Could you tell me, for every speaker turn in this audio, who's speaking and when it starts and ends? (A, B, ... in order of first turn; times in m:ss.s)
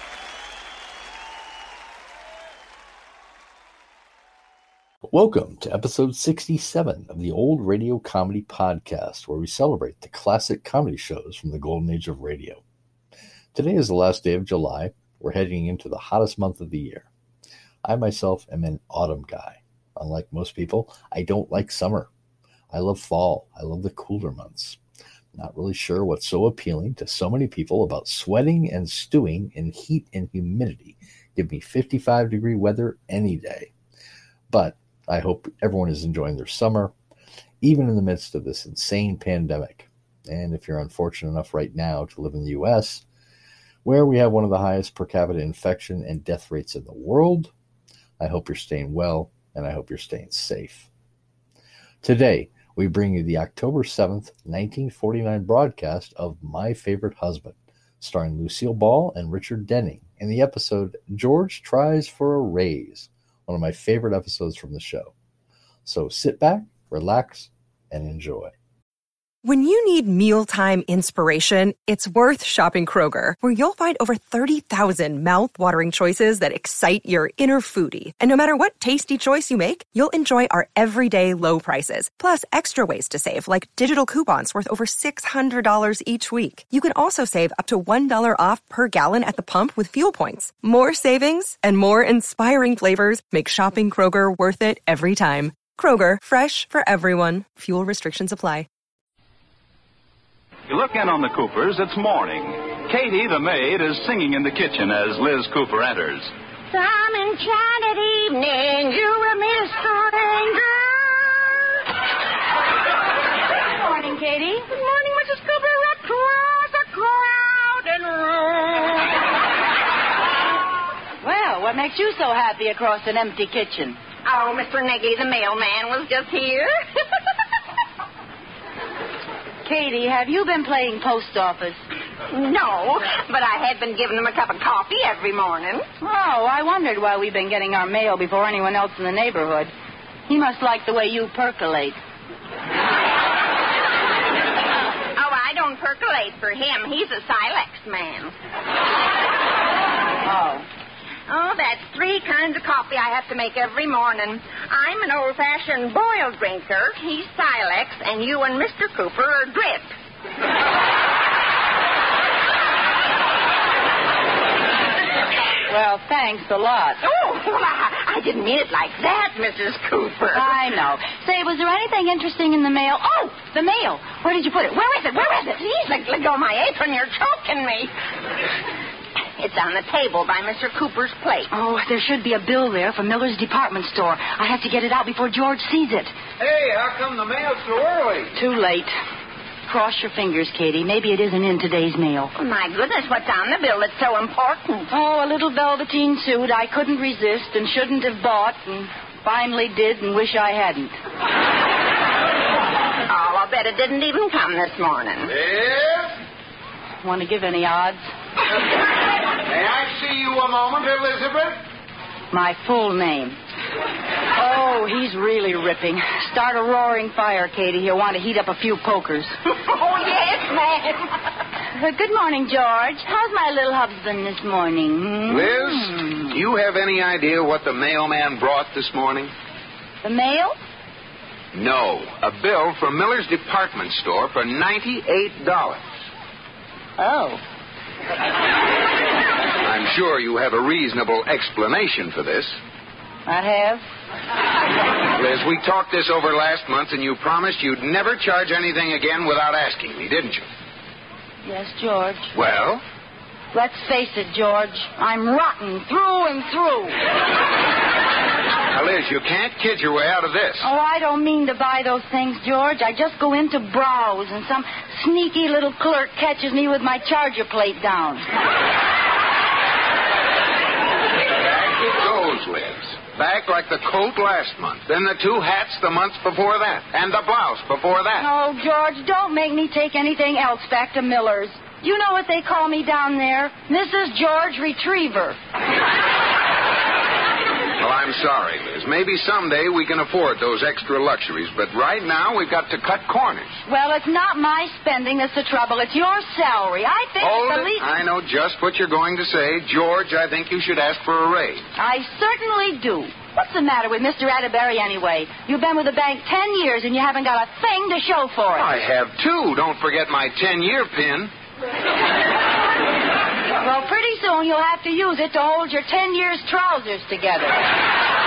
0:05.1-0:12.6 A
0:13.5-0:17.1 A
0:17.8-0:22.1 A
0:22.7-0:24.8 A
0:25.3-0:33.7 A
0:34.5-0:36.9 A
0:37.6-0:43.0 A
0:43.8-0:47.5 A
0:48.2-0:50.9 A
0:52.0-1:05.1 A
1:05.8-1:08.5 A
1:09.4-1:38.7 B
1:40.7-1:46.3 C
1:46.7-1:51.6 D
1:53.7-1:54.7 E
1:54.7-1:59.1 D
2:01.2-2:04.0 E
2:04.2-2:06.7 D
2:09.6-2:11.8 E
2:12.3-2:15.8 D
2:16.0-2:19.7 E
2:20.3-2:22.0 E
2:25.2-2:28.3 D
2:30.2-2:30.6 E
2:31.3-2:39.9 D
2:45.7-2:47.0 E
2:47.0-2:50.5 D
2:50.3-2:54.7 E
2:54.6-2:57.9 D
2:59.4-3:01.5 D
3:01.5-3:06.1 E
3:06.4-3:08.3 F
3:08.3-3:08.9 E
3:09.7-3:12.3 E
3:12.3-3:14.9 D
3:14.9-3:20.9 E
3:23.1-3:25.3 D
3:25.3-3:26.2 F
3:27.0-3:28.0 E
3:29.4-3:31.6 F
3:32.3-3:33.4 E
3:34.4-3:39.4 E
3:39.5-3:41.0 D
3:41.7-3:46.0 E
3:45.3-3:49.3 F
3:50.0-3:50.6 E
3:51.5-3:55.9 F
3:57.0-3:57.4 E
3:59.6-4:02.6 F
4:03.2-4:03.8 E
4:05.1-4:10.5 F
4:11.4-4:12.3 E
4:12.3-4:12.8 F
4:13.5-4:17.0 E
4:18.7-4:20.7 F
4:20.6-4:28.2 E
4:31.7-4:38.2 F
4:38.2-4:45.4 E
4:47.8-4:53.6 F
4:53.7-4:57.9 E
4:57.2-5:01.6 F
5:01.8-5:08.7 E
5:08.5-5:11.3 F
5:13.6-5:17.6 E